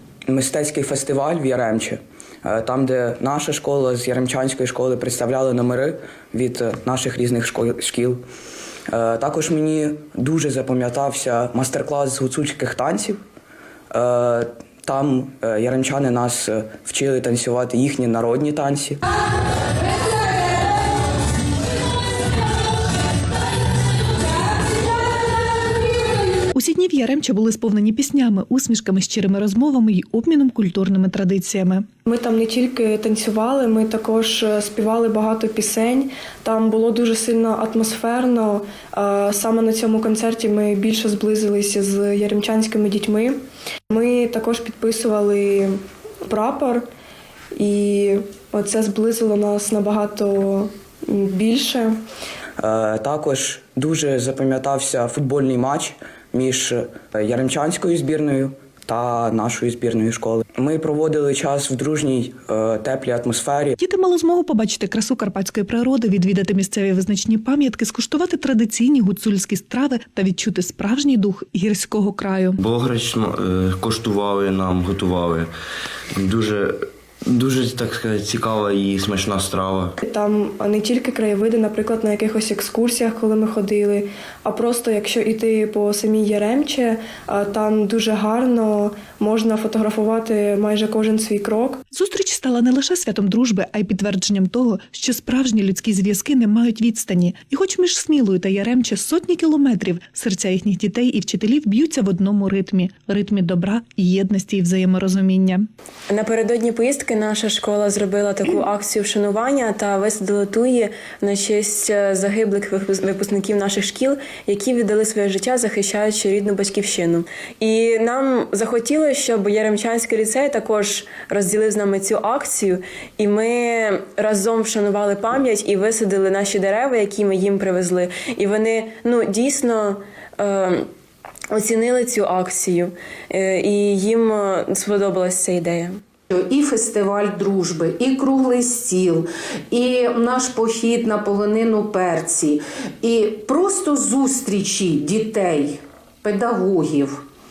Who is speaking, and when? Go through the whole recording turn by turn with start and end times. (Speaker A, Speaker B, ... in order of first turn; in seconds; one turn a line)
Speaker A: 0.3-8.2
Speaker A: 8.9-13.2
Speaker A: 13.9-19.0
Speaker B: 26.5-31.9
Speaker C: 32.1-43.3
Speaker C: 43.9-46.9
Speaker C: 47.6-51.9
Speaker A: 52.6-63.7
Speaker B: 63.8-72.6
Speaker D: 72.6-75.5
Speaker D: 76.2-79.9
Speaker C: 80.0-91.8
Speaker B: 91.9-105.7
Speaker E: 106.1-130.9
Speaker E: 131.5-136.0
Speaker F: 136.3-147.2